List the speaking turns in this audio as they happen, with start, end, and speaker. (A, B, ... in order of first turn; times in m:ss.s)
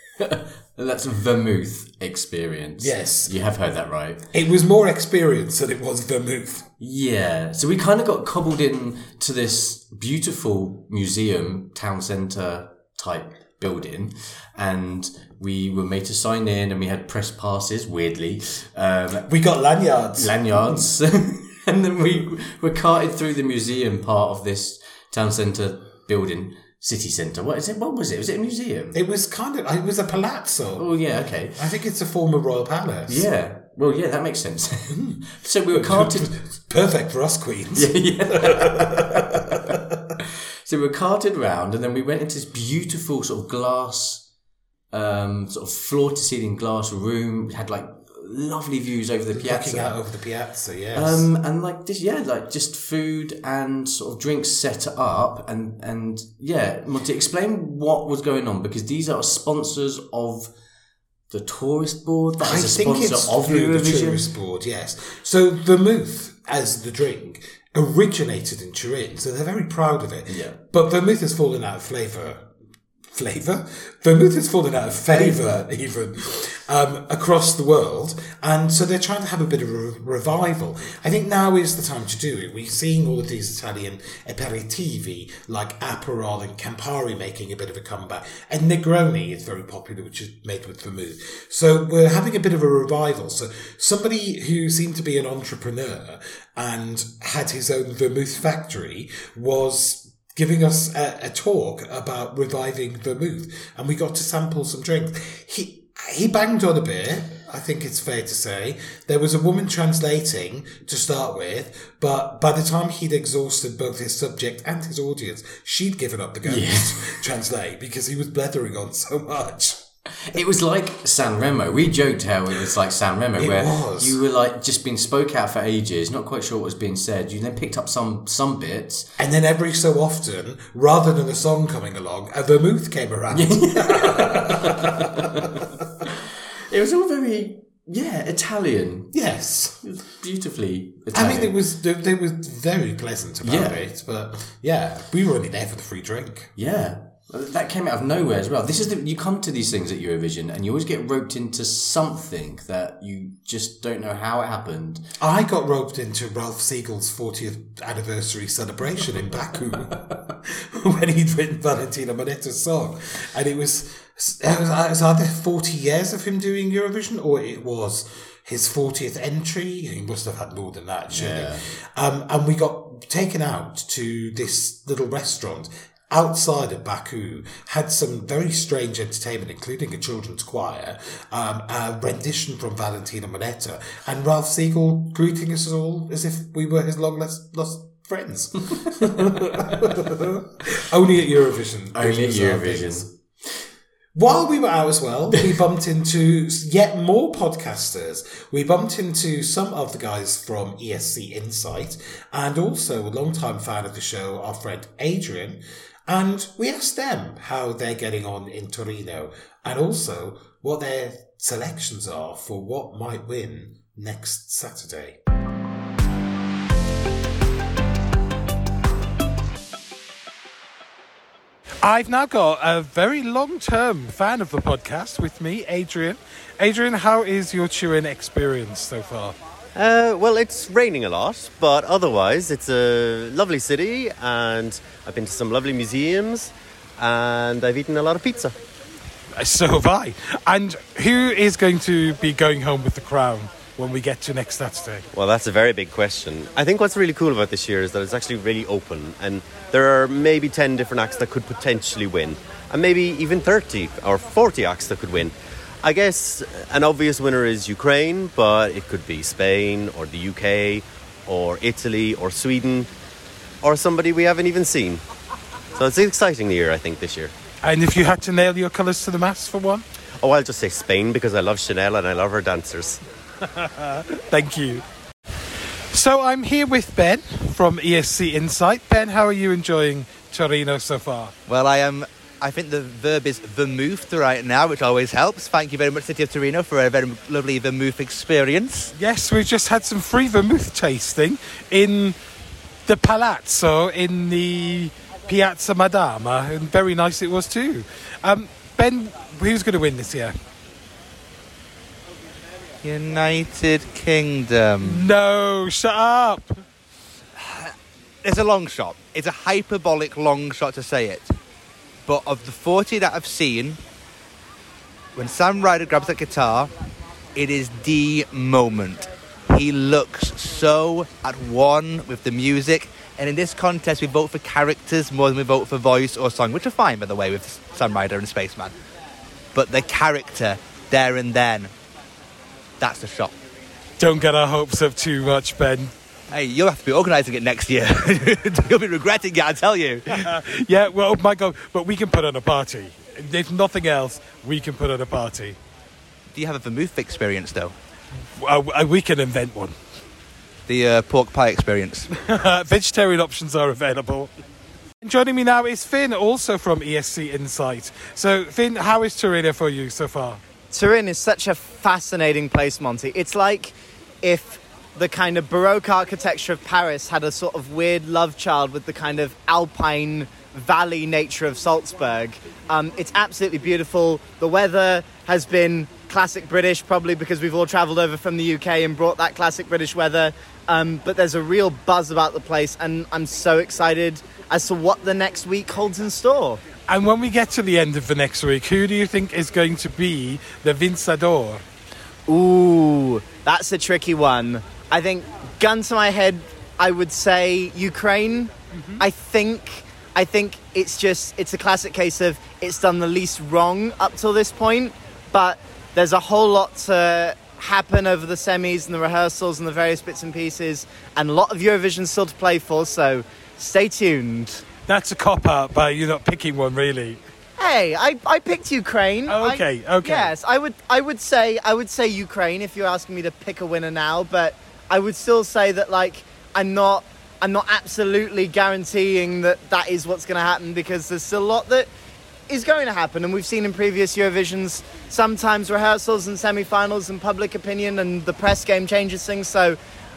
0:00.2-0:04.2 A
0:02.8-0:03.4 B
0:04.3-0:06.7 B
0:06.8-0:19.3 A
0:19.3-0:20.9 B
0:20.2-0:29.0 A
0:28.9-0:33.3 B
0:30.8-0:31.6 A
0:33.1-0:36.3 A
0:34.9-0:39.1 B
0:37.8-0:39.4 A
0:40.7-0:44.3 A
0:44.9-0:50.0 A
0:49.3-0:51.3 B
0:50.9-1:00.6 A
1:01.3-1:04.3 A
1:02.4-1:12.5 B
1:10.3-1:10.6 A
1:13.1-1:59.8 B
1:15.1-1:15.6 A
1:56.4-1:57.2 A
2:00.3-2:09.1 A
2:03.4-2:04.2 B
2:09.2-2:14.6 B
2:13.3-2:15.2 A
2:16.6-2:19.2 A
2:19.1-2:19.8 B
2:19.8-2:21.5 A
2:21.1-2:26.5 B
2:23.4-2:23.8 A
2:26.6-2:35.0 A
2:35.2-3:13.1 B
2:51.1-2:51.6 A
3:11.9-3:13.2 A
3:14.2-3:35.2 B
3:41.9-3:45.6 C
3:42.6-3:49.3 B
3:46.9-3:49.2 C
3:49.8-3:58.6 D
3:59.4-4:05.0 C
4:05.1-4:22.9 D
4:23.6-4:25.0 D
4:25.8-4:27.3 D
4:27.7-4:29.8 C
4:28.8-4:29.1 B
4:30.2-4:33.0 D
4:34.3-4:34.7 C
4:36.0-4:41.0 C
4:37.6-4:39.1 B
4:39.7-4:41.2 B
4:41.5-4:48.9 E
4:49.0-4:49.8 C
4:49.2-4:52.1 B
4:50.6-4:51.2 C
4:52.9-4:54.5 B
4:53.1-4:54.9 C
4:55.3-5:00.3 B
4:58.5-4:59.3 C
5:02.8-5:04.9 E
5:04.8-5:06.4 C
5:05.0-5:06.2 B
5:07.4-5:11.4 E
5:12.1-5:13.8 E
5:15.2-5:16.7 E
5:17.4-5:28.8 E
5:29.5-5:31.7 E
5:32.8-5:33.3 E
5:34.0-5:35.9 C
5:36.3-5:40.1 E
5:40.3-5:45.5 C
5:46.3-5:47.7 E
5:48.5-5:49.7 C
5:50.7-5:52.1 E
5:52.3-5:54.3 C
5:55.2-6:00.2 C
5:56.3-5:56.7 B
6:00.7-6:26.6 F
6:26.9-6:31.6 C
6:32.3-6:54.6 F
6:54.9-6:57.2 C
6:57.6-7:11.9 F
6:59.3-7:00.3 C
7:12.5-7:19.8 F